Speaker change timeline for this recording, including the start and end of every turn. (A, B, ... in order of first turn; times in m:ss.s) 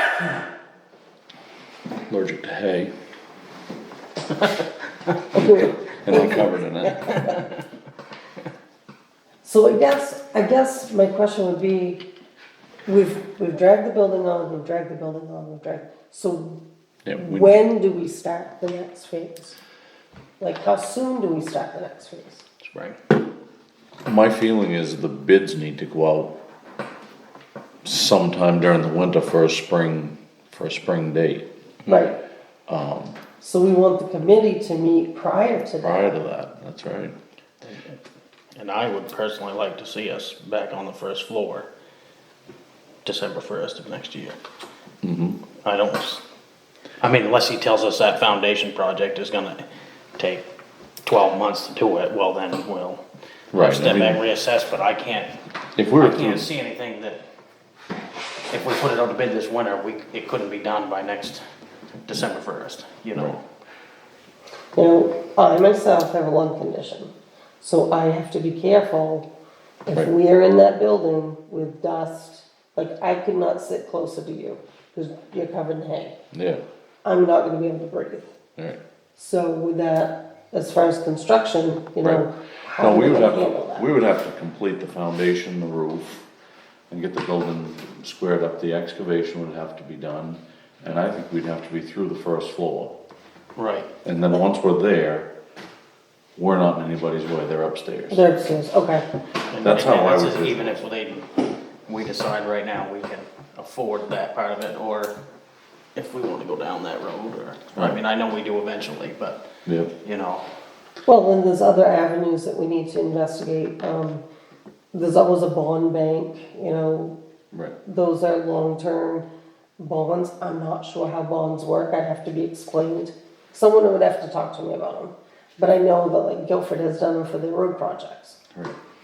0:02.1-0:02.9 A
0:05.3-0:06.5 B
0:05.4-0:07.4 A
0:07.0-0:07.4 C
0:09.4-0:12.0 B
0:12.9-0:16.6 B
0:17.0-0:17.6 A
0:17.2-0:19.6 B
0:20.4-0:22.4 B
0:22.6-0:23.0 C
0:24.0-0:26.3 A
0:27.8-0:32.0 A
0:31.8-0:32.2 B
0:32.7-0:33.2 A
0:33.4-0:36.1 B
0:35.8-0:37.1 A
0:37.6-0:38.0 C
0:38.5-0:41.7 C
0:43.0-0:44.4 C
0:45.0-0:45.4 A
0:45.6-0:46.2 C
0:47.0-0:49.6 C
0:50.2-0:50.4 C
0:51.0-0:55.4 C
0:53.5-0:54.2 A
0:55.8-0:56.5 A
0:56.0-0:57.2 C
0:58.5-1:01.4 C
1:02.0-1:03.4 C
1:04.8-1:09.3 B
1:09.8-1:16.1 B
1:16.3-1:16.6 A
1:17.0-1:18.4 B
1:19.2-1:23.9 B
1:22.8-1:26.3 A
1:26.9-1:32.9 A
1:33.6-1:33.9 C
1:34.0-1:35.3 A
1:36.4-1:38.2 A
1:38.1-1:39.0 B
1:39.5-1:45.1 C
1:39.6-1:40.8 A
1:45.9-1:49.4 C
1:49.6-1:49.9 A
1:50.0-1:50.4 C
1:51.0-1:54.2 B
1:54.9-1:57.2 B
1:57.8-1:59.2 B
1:59.8-2:08.4 B